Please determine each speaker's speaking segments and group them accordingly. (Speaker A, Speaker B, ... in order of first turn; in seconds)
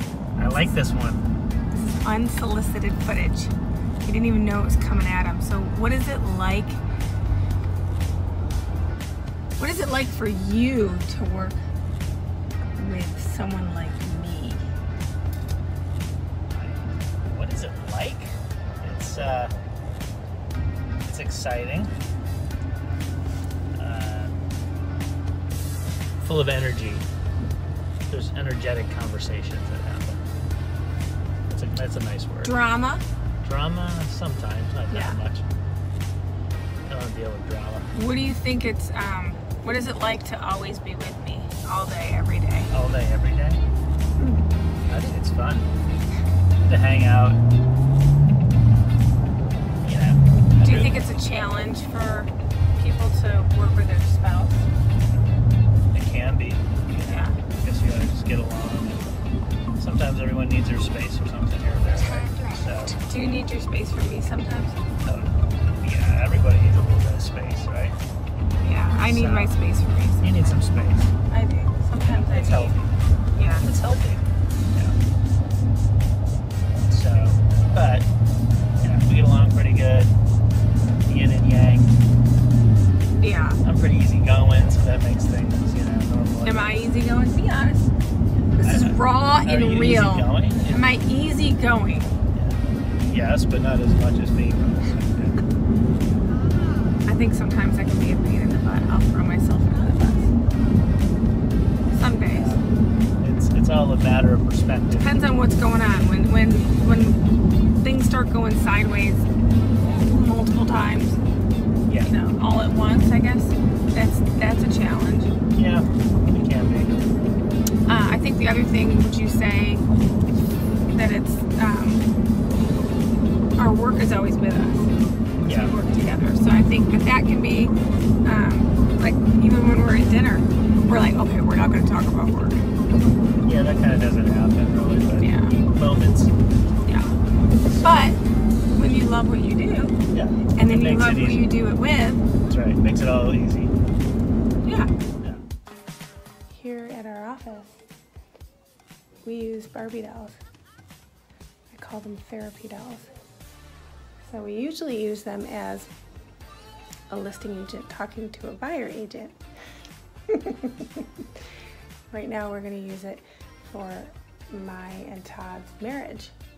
Speaker A: 0.4-1.3, 16.5-19.5, 21.0-21.9, 23.7-24.5, 26.2-27.1, 28.1-30.2, 31.5-32.6, 33.4-35.5, 36.9-37.9, 42.7-43.6, 44.9-45.7, 46.6-47.4, 49.8-51.0, 55.9-59.1, 59.8-63.0, 65.0-68.0, 68.9-69.5, 70.2-71.1, 72.2-73.0, 73.5-75.0, 76.8-78.1, 78.8-80.1, 81.0-82.0, 83.6-86.8, 88.6-90.9, 92.3-95.4, 102.3-105.2, 111.9-112.1, 115.5-117.0, 125.4-125.7, 133.4-136.4, 137.6-138.1, 140.1-141.5, 142.5-143.7
Speaker B: 1.7-6.8, 9.6-11.6, 12.8-14.7, 32.4-33.0, 34.9-35.2, 37.9-42.7, 44.2-44.4, 50.6-54.6, 57.0-57.4, 61.9-64.8, 68.6-70.6, 71.3-72.8, 73.3-73.7, 83.2-83.6, 86.4-87.9, 88.6-92.1, 97.0-100.3, 101.9-102.5, 105.0-107.2, 107.8-109.3, 109.8-111.2, 112.0-115.3, 117.9-119.8, 120.9-122.0, 123.6-132.7, 135.2-135.6, 136.8-137.2, 137.8-138.2, 138.7-140.0, 140.5-142.3, 144.6-144.9, 146.5-147.8, 149.2-150.4, 151.7-153.1, 154.3-155.9, 157.1-159.4, 160.3-161.0, 162.1-166.3